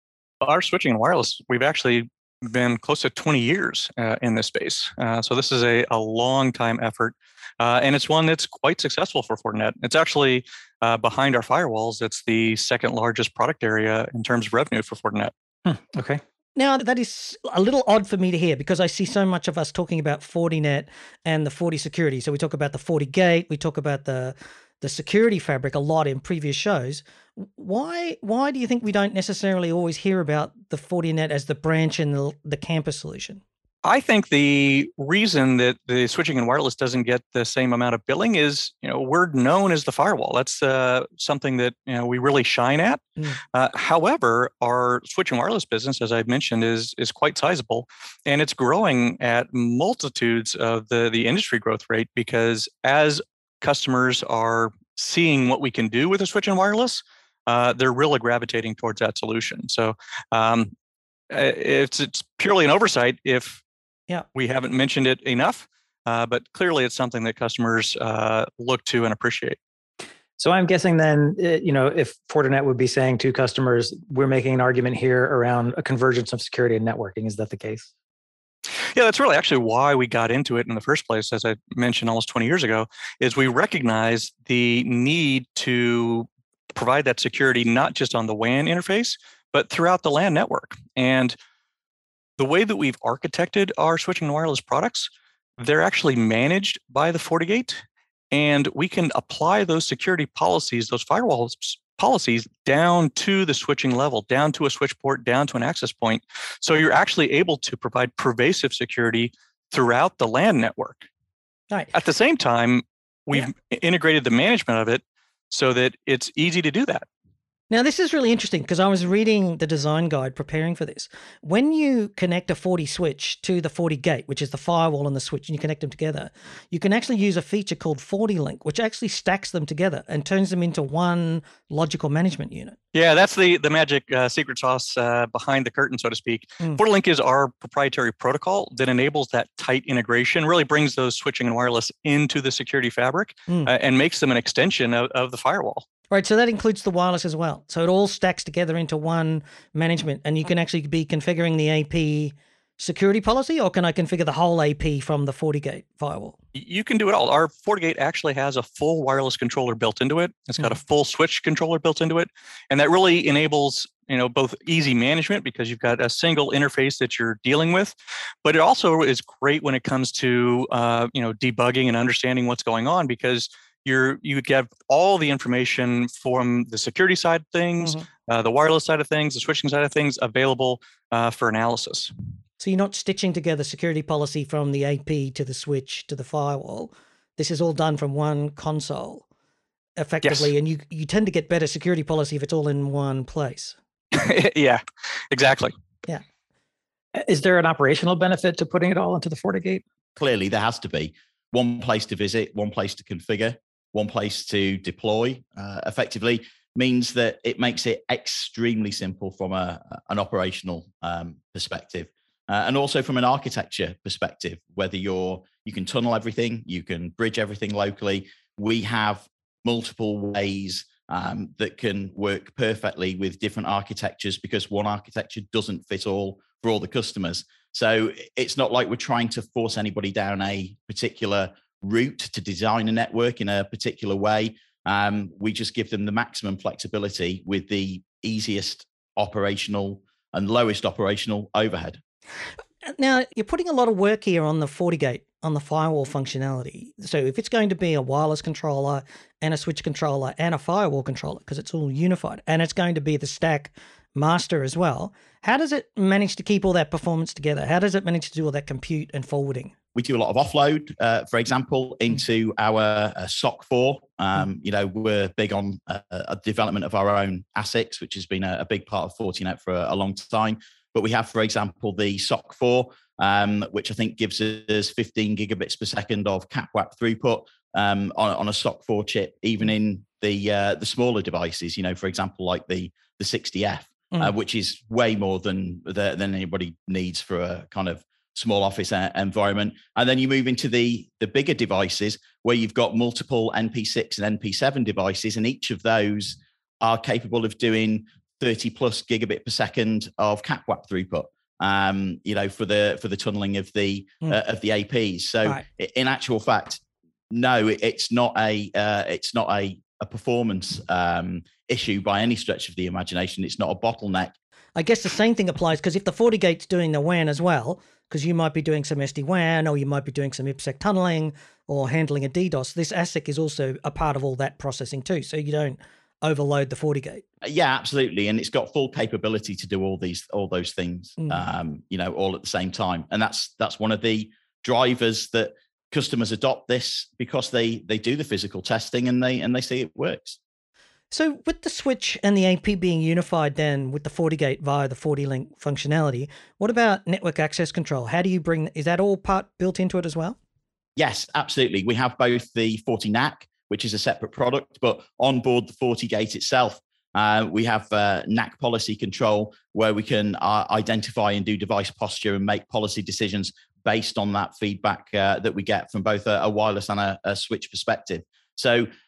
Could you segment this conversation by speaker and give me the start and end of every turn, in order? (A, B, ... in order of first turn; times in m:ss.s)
0:00.4-0:15.3 A
0:15.6-0:16.2 B
0:16.6-0:33.4 C
0:33.8-0:43.0 A
0:43.5-1:00.7 A
1:01.3-1:03.6 A
1:04.3-1:09.6 A
1:10.4-1:17.9 B
1:18.9-1:31.4 A
1:32.4-1:51.1 A
1:51.9-1:57.0 A
1:57.7-2:12.7 C
2:12.9-2:25.8 A
2:26.1-2:36.3 C
2:36.5-3:02.1 A
2:57.8-2:58.0 C
3:02.6-3:09.2 C
3:10.0-3:13.8 C
3:10.2-3:10.5 A
3:14.1-3:14.8 A
3:15.3-3:15.7 A
3:17.1-3:19.8 B
3:20.2-4:02.0 D
4:02.8-4:19.7 C
4:19.9-5:14.3 D
5:14.8-5:27.2 C
5:27.4-5:40.4 D
5:41.1-5:50.4 C
5:51.0-6:08.9 D